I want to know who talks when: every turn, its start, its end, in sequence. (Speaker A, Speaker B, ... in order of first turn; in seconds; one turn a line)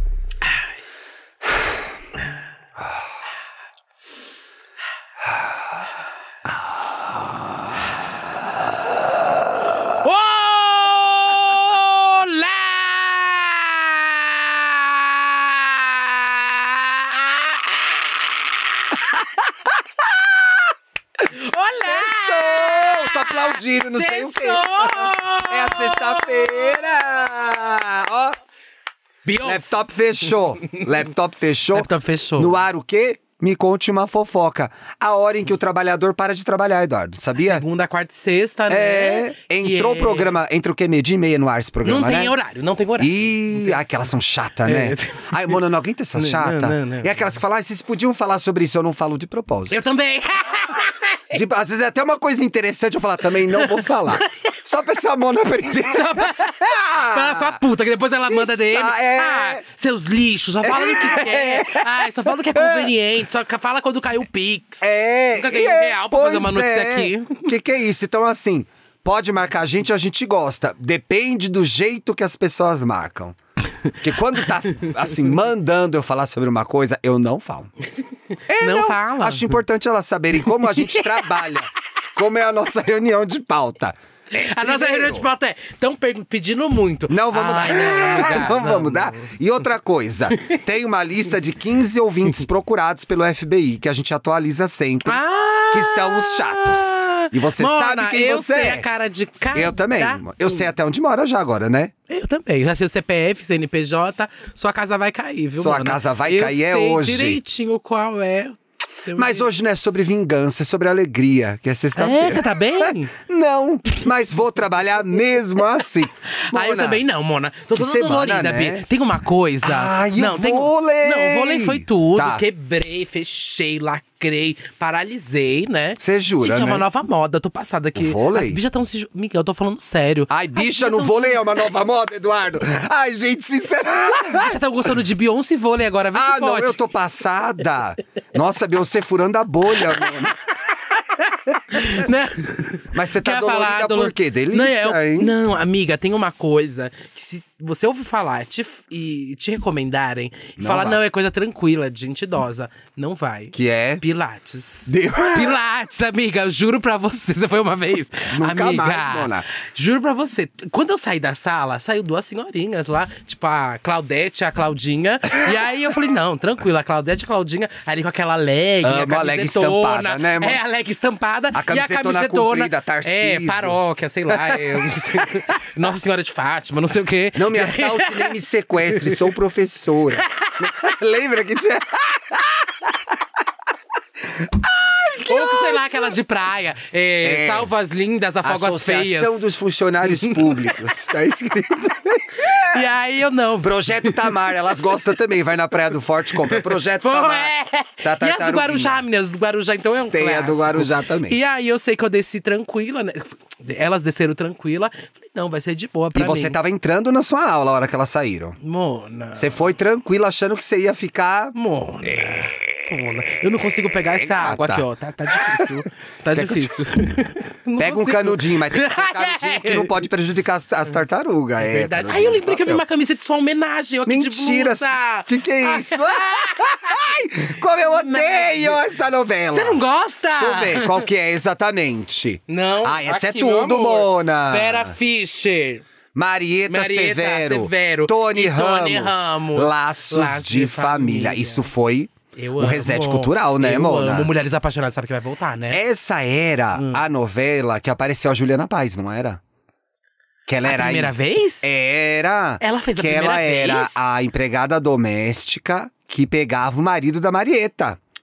Speaker A: 7.0-7.3
Speaker B: 9.8-18.3
Speaker B: 21.2-26.9
Speaker A: 21.8-28.4
Speaker B: 29.2-29.7
Speaker A: 29.4-37.6
Speaker B: 31.7-32.6
Speaker B: 37.4-40.3
Speaker A: 38.7-42.3
Speaker B: 41.8-43.8
Speaker A: 43.0-49.8
Speaker B: 44.6-45.6
Speaker B: 46.1-47.2
Speaker B: 49.7-51.2
Speaker A: 51.3-57.6
Speaker B: 55.8-67.5
Speaker A: 58.3-59.6
Speaker A: 60.6-62.9
Speaker A: 64.8-73.4
Speaker A: 74.0-77.7
Speaker A: 78.5-84.0
Speaker B: 78.6-79.6
Speaker B: 80.6-81.3
Speaker B: 84.3-89.3
Speaker A: 84.6-85.2
Speaker A: 87.1-98.8
Speaker B: 95.0-100.7
Speaker A: 99.5-101.9
Speaker B: 102.1-109.5
Speaker A: 105.5-107.4
Speaker A: 109.1-117.0
Speaker B: 112.0-113.1
Speaker B: 116.3-131.3
Speaker A: 117.7-118.8
Speaker A: 119.6-122.4
Speaker A: 126.0-126.8
Speaker A: 127.9-128.6
Speaker A: 130.3-134.6
Speaker B: 134.0-136.8
Speaker A: 136.1-140.3
Speaker B: 139.9-140.3
Speaker B: 140.9-178.4
Speaker A: 141.7-142.1
Speaker A: 142.9-145.3
Speaker A: 150.6-151.0
Speaker A: 153.5-154.0
Speaker A: 154.9-155.6
Speaker A: 158.3-159.5
Speaker A: 168.8-170.6
Speaker A: 171.5-174.9
Speaker A: 177.3-183.2
Speaker B: 178.9-179.2
Speaker A: 184.3-186.2
Speaker B: 185.2-189.5
Speaker A: 187.2-187.7
Speaker A: 188.4-192.8
Speaker B: 190.0-190.5
Speaker B: 192.4-194.5
Speaker A: 193.6-199.0
Speaker B: 196.3-206.6
Speaker A: 200.1-201.4
Speaker A: 206.1-208.6
Speaker B: 208.6-209.6
Speaker A: 209.3-211.5
Speaker B: 211.5-220.0
Speaker A: 214.2-216.8
Speaker A: 217.8-222.8
Speaker B: 221.6-227.1
Speaker A: 224.1-229.8
Speaker B: 227.8-228.9
Speaker B: 229.5-231.1
Speaker A: 230.4-234.9
Speaker B: 232.5-235.8
Speaker A: 236.1-244.3
Speaker B: 236.7-241.7
Speaker B: 242.3-245.8
Speaker A: 245.7-249.4
Speaker B: 246.8-247.0
Speaker A: 250.5-258.0
Speaker B: 250.6-251.7
Speaker B: 252.6-254.0